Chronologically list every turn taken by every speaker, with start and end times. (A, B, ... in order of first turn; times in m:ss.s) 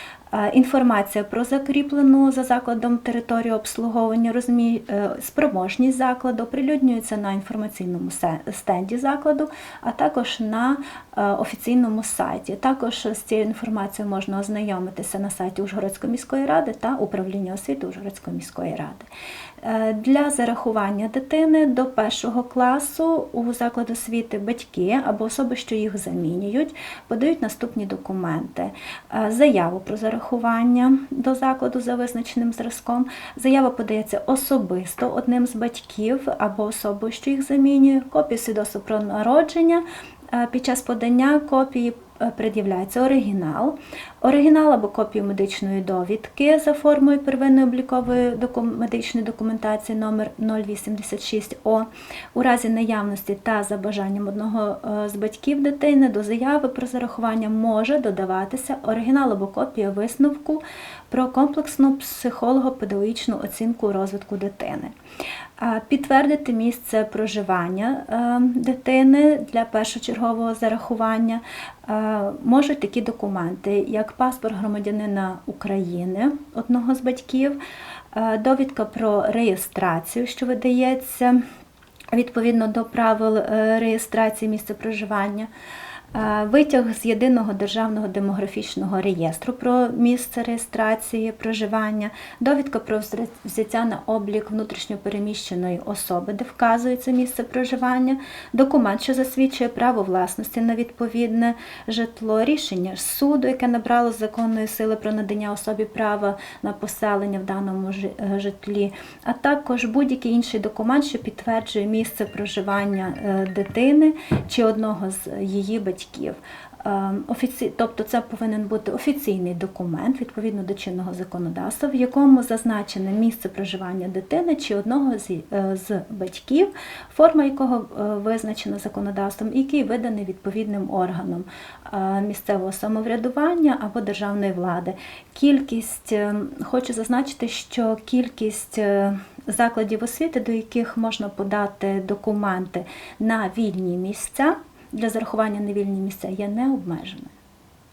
0:00.3-0:19.1 A
0:19.6-1:04.9 A
1:05.6-1:17.6 A
1:18.1-1:21.4 A
1:22.1-1:25.5 A
1:26.1-2:27.3 A